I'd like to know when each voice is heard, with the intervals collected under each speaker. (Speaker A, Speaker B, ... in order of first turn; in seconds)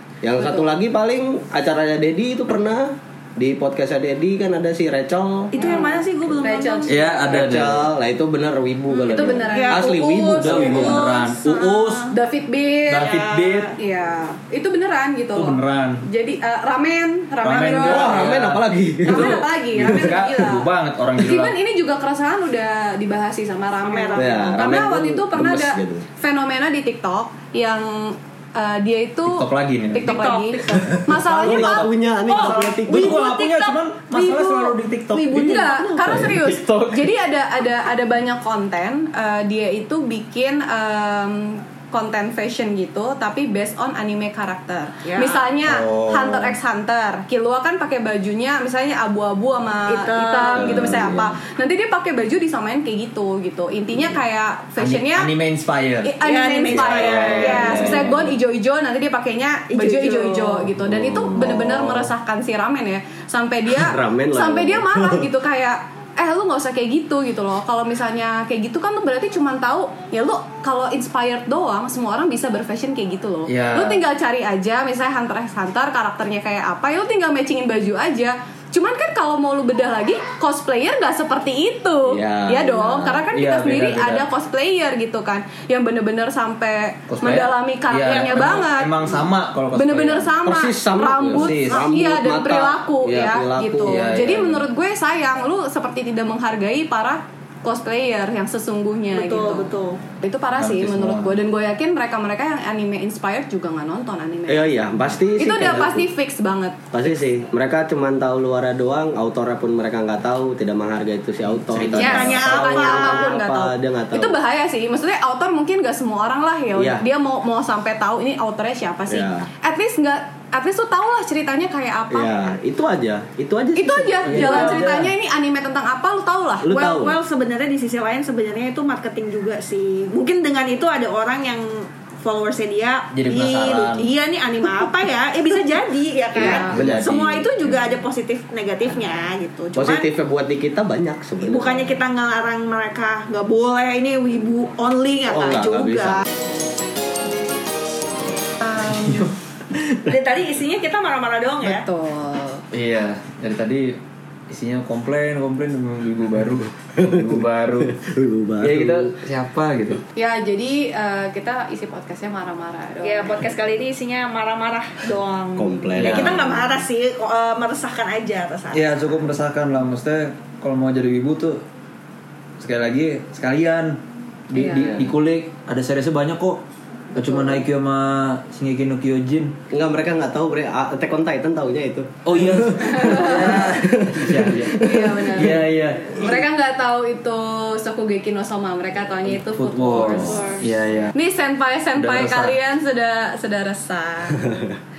Speaker A: 0.2-5.7, 7.3-11.1, 17.8-20.1, 24.2-26.1, 31.0-33.2, 36.0-36.4, 50.5-51.4, 56.7-58.3, 60.9-62.0, 63.7-65.3, 82.1-83.3, 90.4-94.0, 104.5-106.1, 106.9-114.3, 116.8-117.0, 119.1-119.5, 122.1-124.9, 126.6-127.2, 136.3-138.0, 139.8-142.0, 145.3-146.2, 157.0-159.1, 165.6-166.7, 174.7-175.1, 179.7-185.6
Speaker B: 5.5-7.0, 9.0-12.1, 12.9-13.8, 23.8-24.6, 30.0-30.7, 32.3-36.2, 45.0-45.4, 49.9-50.9, 56.2-58.0, 59.7-60.7, 99.1-100.0, 112.0-113.3, 126.7-140.1, 141.4-146.2, 150.1-151.8, 163.0-169.2, 190.0-190.6
Speaker C: 5.6-7.3, 9.1-10.0, 12.1-13.2, 13.8-18.2, 19.1-31.9, 35.3-55.3, 56.0-89.1, 89.8-104.7, 105.4-106.8, 112.0-122.5, 123.8-126.8, 136.4-136.8, 148.7-149.2, 151.6-152.6, 160.2-163.4, 174.5-174.9, 182.8-183.6, 184.7-190.6, 191.1-194.6
Speaker D: 6.9-7.9, 10.3-12.1, 12.9-13.8, 15.4-16.0, 17.4-21.6, 29.3-30.1, 31.3-35.4, 36.1-37.1, 45.7-46.5, 54.8-56.1, 56.9-58.1, 61.4-61.8, 73.5-74.0, 83.3-84.3, 87.1-90.3, 91.3-91.9, 93.9-94.7, 100.6-101.4, 111.7-112.6, 124.3-125.1, 133.1-134.1, 136.7-137.2, 148.8-150.1, 152.7-154.0, 154.5-158.0, 158.6-160.0, 166.0-166.6, 168.7-171.6, 172.6-176.6, 177.1-179.6, 182.2-186.2, 189.4-191.2, 192.0-192.6